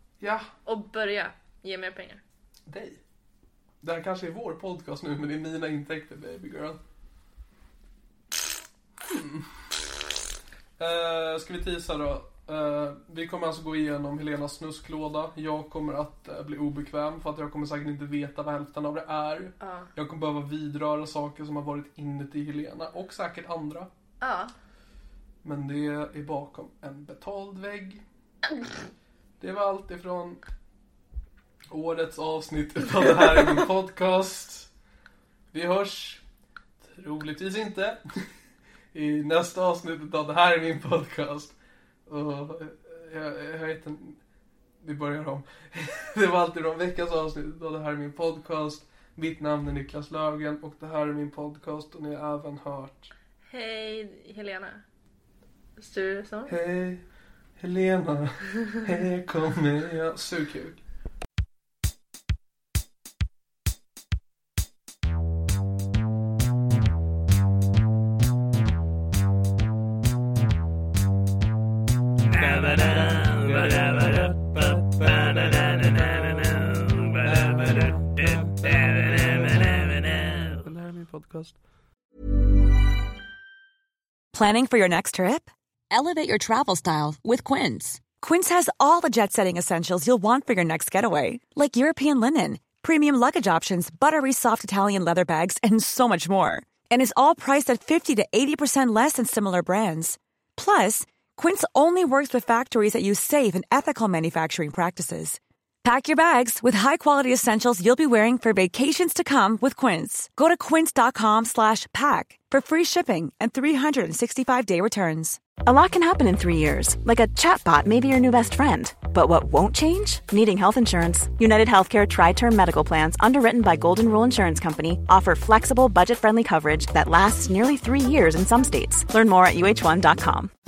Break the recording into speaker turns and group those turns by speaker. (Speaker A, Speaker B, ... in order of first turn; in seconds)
Speaker A: 0.2-0.5, 2.7-3.0, 3.8-6.8, 9.1-9.4, 10.8-23.9, 25.4-28.0, 29.4-30.4, 31.7-34.7, 35.5-36.2, 36.8-38.2, 38.9-41.5, 42.1-44.2, 44.8-53.1, 56.5-57.0, 57.6-60.8, 72.3-81.5
Speaker B: 0.7-2.2, 19.6-19.9, 24.2-24.5, 53.5-54.8, 55.8-56.5
Speaker C: 84.3-115.4
Speaker D: 115.6-130.5